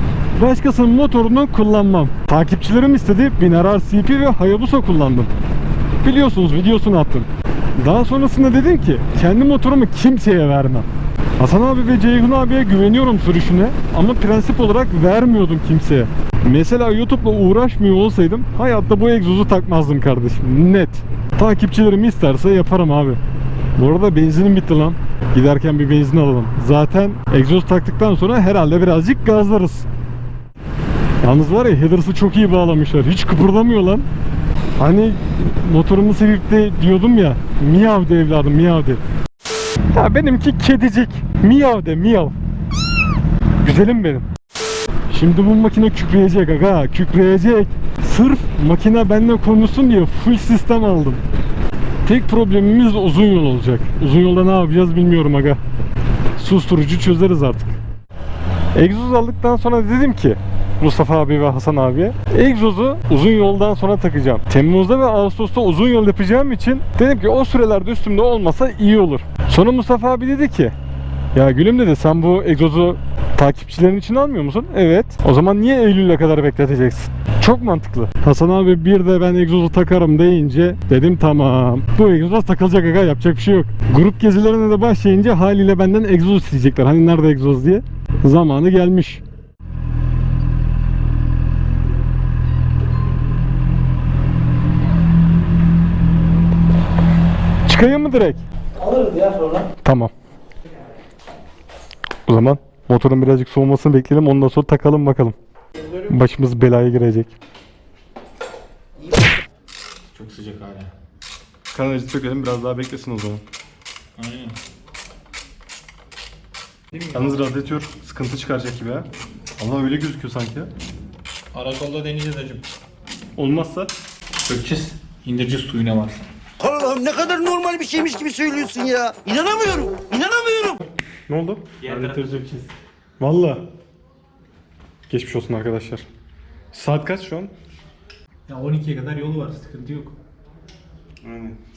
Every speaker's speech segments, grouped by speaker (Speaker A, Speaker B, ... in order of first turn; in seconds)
Speaker A: 0.4-5.3, 6.0-10.9, 11.4-23.2, 23.8-29.9, 31.2-34.1, 34.8-39.0, 39.9-42.3, 43.6-44.3, 45.1-51.2, 52.0-55.6, 56.4-57.8, 58.7-70.8, 71.3-89.2, 97.7-98.4, 99.8-100.1, 102.3-105.4, 106.0-107.3, 111.7-113.4, 117.1-120.7, 123.4-123.9, 131.3-132.1, 133.2-133.7, 135.1-136.1, 136.7-137.5
Speaker B: 98.8-99.6, 110.1-110.9, 114.2-114.6, 117.0-117.3, 121.5-122.6, 124.5-126.3, 131.8-132.7, 138.5-140.1
Speaker C: 126.6-130.7